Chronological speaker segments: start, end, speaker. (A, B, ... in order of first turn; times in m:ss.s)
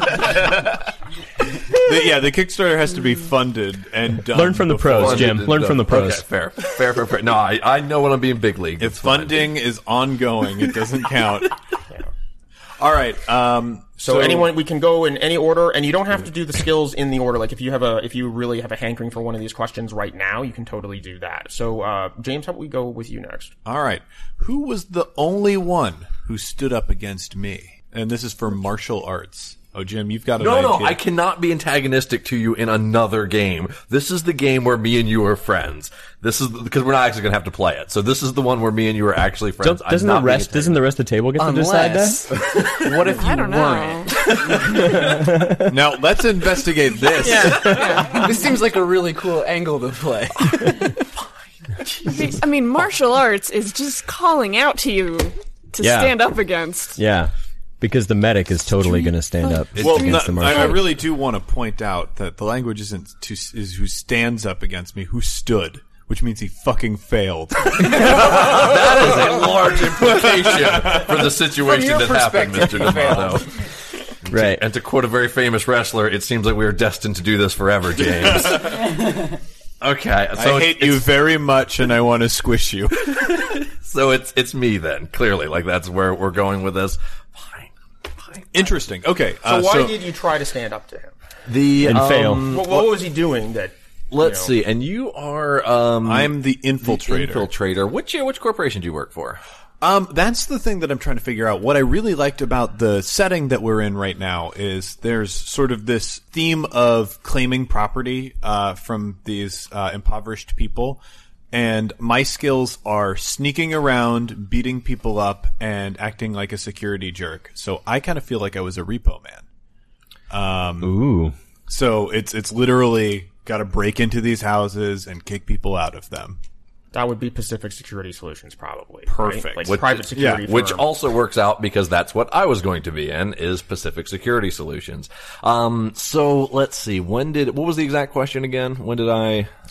0:01.7-0:05.5 A
0:04.2-0:06.2 B
0:04.9-0:09.6 C
0:08.8-0:11.6 A
0:12.8-0:14.5 A
0:14.0-0:23.5 D
0:23.6-0:31.0 A
0:30.4-0:40.8 C
0:39.6-0:42.4 B
0:41.4-0:45.2 E
0:43.2-0:44.3 F
0:44.6-0:45.8 B
0:45.6-0:47.9 A
0:47.1-0:50.9 E
0:47.3-0:48.2 F
0:47.7-0:48.1 B
0:52.0-0:57.0 F
0:55.8-0:56.2 B
0:57.0-1:00.9 B
0:58.8-1:00.8 F
0:59.8-1:09.4 A
1:07.8-1:13.6 C
1:10.0-1:11.2 A
1:11.6-1:13.6 E
1:14.2-1:19.2 C
1:14.3-1:14.6 B
1:18.4-1:18.9 A
1:19.8-1:21.2 C
1:20.4-1:23.6 A
1:23.1-1:28.5 C
1:28.5-1:29.9 A
1:29.4-1:31.1 D
1:31.5-1:32.9 C
1:31.8-1:32.5 B
1:32.4-1:34.5 D
1:34.1-1:39.4 C
1:36.0-1:37.5 A
1:39.8-1:51.0 A
1:51.5-1:59.4 A
2:00.3-2:01.0 A
2:00.8-2:01.3 B
2:01.7-2:06.4 A
2:06.9-2:10.9 D
2:09.1-2:10.4 A
2:09.6-2:19.5 C